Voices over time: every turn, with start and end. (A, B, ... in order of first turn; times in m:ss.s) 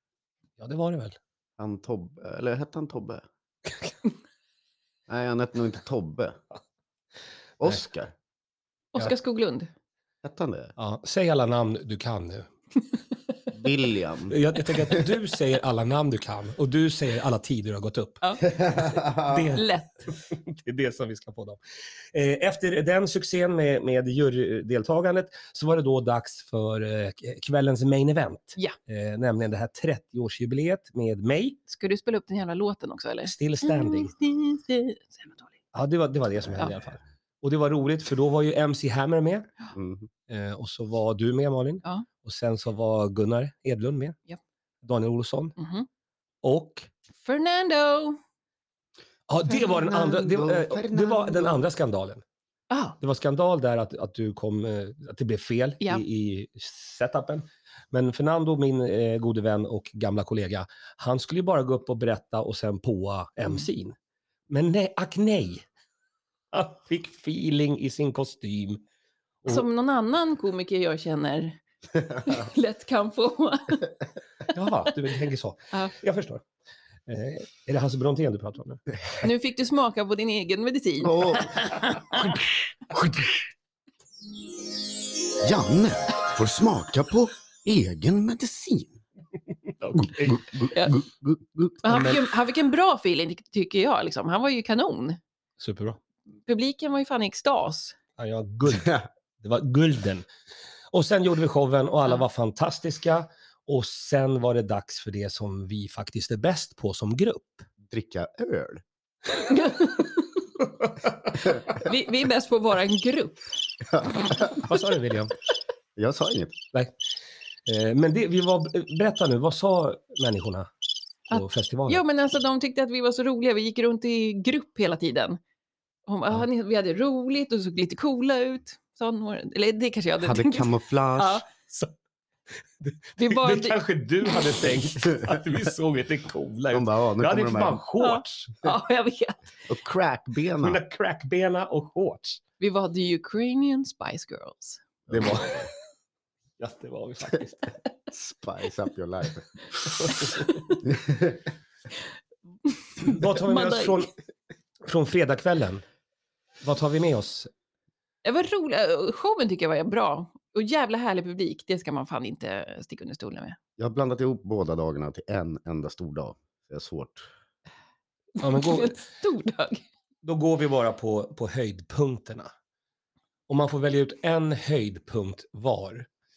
0:00.6-0:01.2 A
0:01.6-0:03.2 B
0:05.1-0:06.4 B
0:07.6-0:08.1 B
0:08.9-0:09.7 C
0:10.2-0:10.7 B
0:10.8-0:12.5 A
0:13.5-0:15.0 B
0:14.3-0:18.2 A
0:18.5-0:19.6 B
0:19.1-0:21.6 A
0:19.5-0:20.0 C
0:22.1-0:31.6 A
0:31.7-0:35.4 C
0:33.2-0:34.1 A
0:35.7-0:39.5 A
0:39.7-0:40.1 B
0:40.3-0:44.2 A
0:44.8-0:45.6 A
0:45.6-0:45.9 C
0:46.4-0:46.9 A
0:47.2-0:48.2 C
0:49.3-0:52.2 A
0:49.5-0:51.6 B
0:52.7-0:53.0 C
0:53.0-1:03.9 A
1:04.5-1:05.6 A
1:06.5-1:08.8 A
1:09.5-1:13.9 C
1:14.5-1:16.4 A
1:17.1-1:18.8 A
1:19.2-1:22.3 C
1:21.0-1:22.3 B
1:22.9-1:23.2 B
1:25.4-1:29.0 B
1:29.8-1:30.6 A
1:30.0-1:32.1 B
1:30.7-1:31.0 C
1:31.8-1:35.2 C
1:31.9-1:32.2 A
1:35.6-1:36.0 A
1:36.4-1:38.0 C
1:38.2-1:40.2 A
1:38.8-1:39.0 B
1:40.9-1:47.7 A
1:47.8-1:48.8 B
1:49.3-1:50.3 C
1:51.4-1:53.5 C
1:53.9-1:54.6 B
1:54.6-1:55.3 A
1:56.0-1:56.6 B
1:57.6-2:00.7 A
2:01.3-2:05.4 C
2:01.3-2:02.0 A
2:06.1-2:11.4 C
2:10.2-2:11.4 B
2:11.6-2:11.9 A
2:12.8-2:18.6 A
2:13.2-2:14.4 C
2:16.7-2:17.8 B
2:18.0-2:19.5 C
2:19.7-2:20.8 B
2:20.6-2:22.4 A
2:22.6-2:24.8 C
2:25.1-2:25.7 B
2:25.1-2:25.4 A
2:26.6-2:27.7 A
2:28.1-2:29.9 B
2:29.9-2:30.6 A
2:30.8-2:31.5 B
2:32.7-2:34.1 C
2:33.0-2:34.1 A
2:34.8-2:35.8 A
2:36.6-2:37.5 A
2:38.2-2:43.6 C
2:43.8-2:47.3 B
2:48.4-2:49.0 A
2:48.4-2:49.8 C
2:50.2-2:52.5 A
2:53.5-2:56.1 A